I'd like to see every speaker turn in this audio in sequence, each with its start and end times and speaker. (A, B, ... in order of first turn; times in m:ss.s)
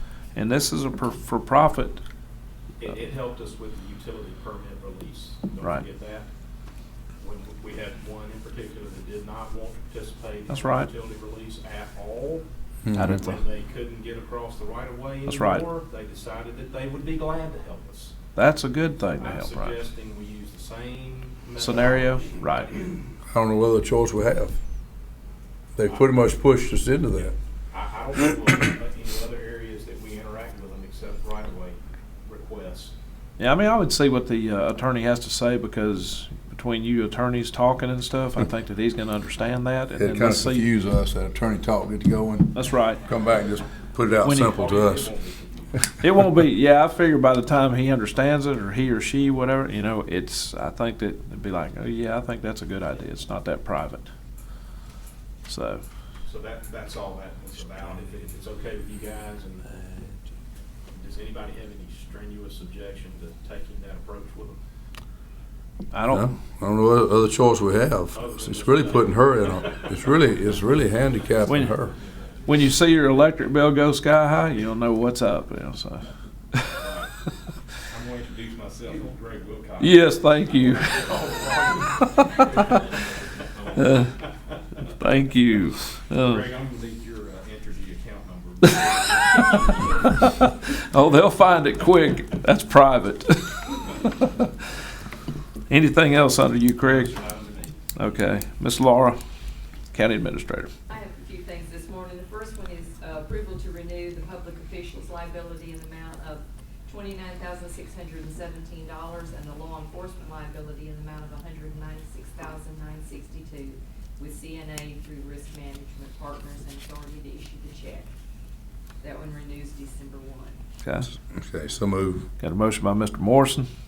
0:00.3-0:02.0 A
0:02.8-0:06.3 B
0:07.2-0:12.4 B
0:10.5-0:10.9 A
0:12.8-0:13.2 C
0:12.9-0:13.4 A
0:13.0-0:18.1 B
0:15.3-0:15.6 A
0:18.3-0:19.8 A
0:19.2-0:22.9 B
0:21.6-0:22.7 A
0:23.2-0:24.6 C
0:25.7-0:27.3 C
0:27.7-0:32.9 B
0:33.4-0:40.7 A
0:40.0-0:45.1 C
0:42.5-0:43.0 A
0:44.2-0:44.6 A
0:44.4-0:45.9 B
0:46.0-0:54.1 A
0:55.4-0:55.8 A
0:56.2-1:00.1 B
1:00.9-1:04.6 B
1:05.9-1:06.2 A
1:06.1-1:11.9 C
1:08.1-1:10.2 B
1:11.5-1:11.8 A
1:11.9-1:12.4 B
1:12.4-1:16.7 A
1:16.7-1:17.1 B
1:17.9-1:24.8 B
1:19.8-1:21.0 A
1:23.8-1:24.1 A
1:25.0-1:26.4 A
1:26.1-1:30.4 B
1:30.0-1:34.4 A
1:35.7-1:37.1 A
1:36.8-1:37.8 B
1:37.9-1:39.2 A
1:39.9-1:40.7 A
1:40.9-1:58.1 D
1:59.0-2:00.6 D
2:00.8-2:01.1 A
2:01.2-2:02.3 C
2:02.4-2:03.7 A